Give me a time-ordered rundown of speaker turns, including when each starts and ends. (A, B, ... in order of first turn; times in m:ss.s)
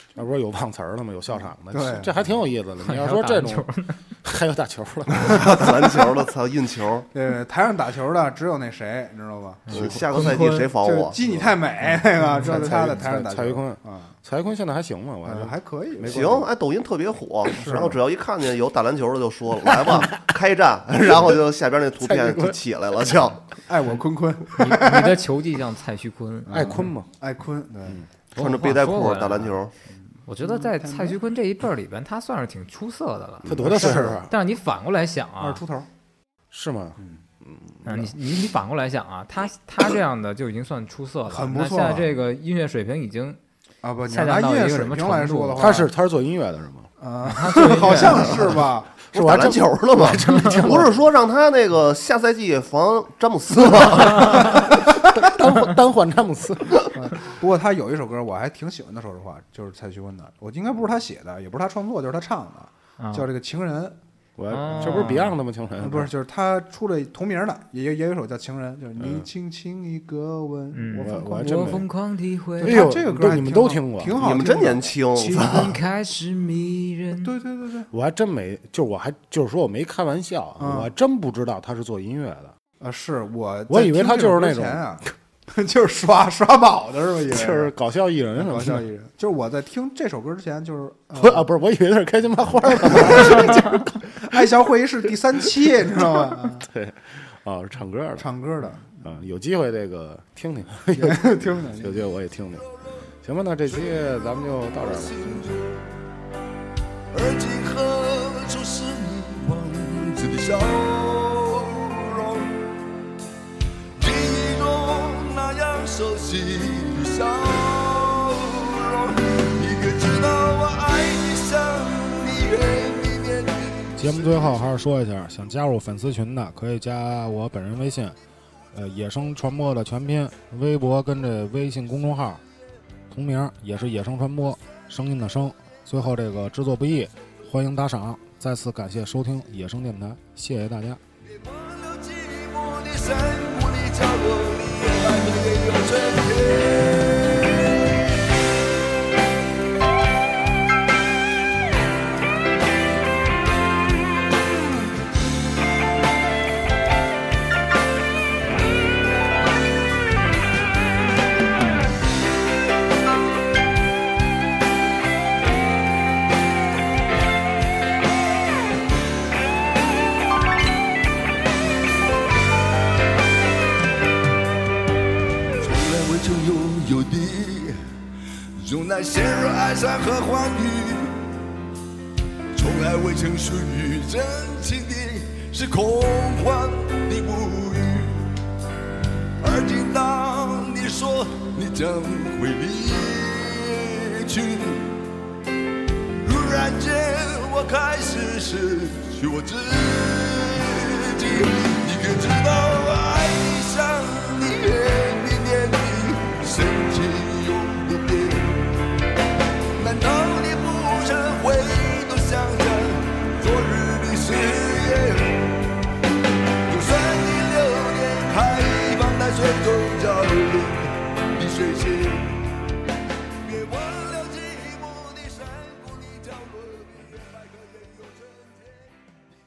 0:00.2-0:03.7 A
0:01.7-0:02.2 B
0:02.8-0:04.0 C
0:04.2-0:05.9 A
0:05.2-0:07.1 D
0:07.1-0:09.7 B
0:09.7-0:10.7 C
0:09.7-0:11.5 D
0:10.8-0:14.1 B
0:11.8-0:16.5 A
0:12.2-0:12.9 C
0:15.2-0:16.3 B
0:16.1-0:23.4 D
0:17.6-0:18.0 B
0:22.0-0:22.6 A
0:23.7-0:25.2 B
0:24.6-0:26.8 C
0:26.5-0:28.0 B
0:26.5-0:27.1 A
0:28.3-0:29.7 D
0:28.4-0:29.6 C
0:30.3-0:35.6 C
0:30.4-0:31.2 B
0:33.4-0:34.3 A
0:33.5-0:34.2 B
0:35.4-0:35.9 B
0:36.5-0:38.1 A
0:37.8-0:43.4 C
0:41.3-0:42.1 B
0:43.8-0:45.9 B
0:44.1-0:45.7 C
0:45.6-0:46.9 A
0:47.0-0:48.9 B
0:47.2-0:48.4 C
0:48.0-0:51.0 A
0:49.1-0:54.8 D
0:50.3-0:50.6 C
0:53.6-0:57.0 A
0:56.9-1:04.0 B
1:03.0-1:03.3 C
1:04.4-1:06.1 A
1:04.5-1:05.4 C
1:04.8-1:05.1 B
1:05.8-1:11.8 B
1:09.0-1:09.3 A
1:10.7-1:12.9 C
1:11.0-1:11.9 A
1:12.6-1:15.0 B
1:12.6-1:14.2 A
1:14.1-1:15.8 D
1:15.2-1:17.3 C
1:17.2-1:17.9 B
1:17.9-1:22.5 A
1:20.6-1:20.9 B
1:22.8-1:27.7 B
1:23.7-1:25.1 A
1:27.3-1:28.9 A
1:28.4-1:31.5 B
1:31.1-1:34.5 A
1:32.8-1:33.6 B
1:34.2-1:36.7 B
1:35.4-1:38.3 A
1:38.2-1:39.0 B
1:38.9-1:42.7 A
1:40.9-1:42.1 B
1:43.2-1:45.5 A
1:43.7-1:45.8 E
1:47.1-1:52.6 E
1:54.0-2:04.5 E
2:04.0-2:08.2 A
2:08.7-2:12.4 A
2:13.1-2:21.0 A
2:21.4-2:27.5 E
2:55.6-2:57.8 E
2:58.6-3:01.3 E
3:02.5-3:08.3 E
3:09.4-3:15.0 E
3:16.2-3:28.7 E
3:29.8-3:35.4 E
3:36.7-3:42.5 E
3:43.4-3:48.9 E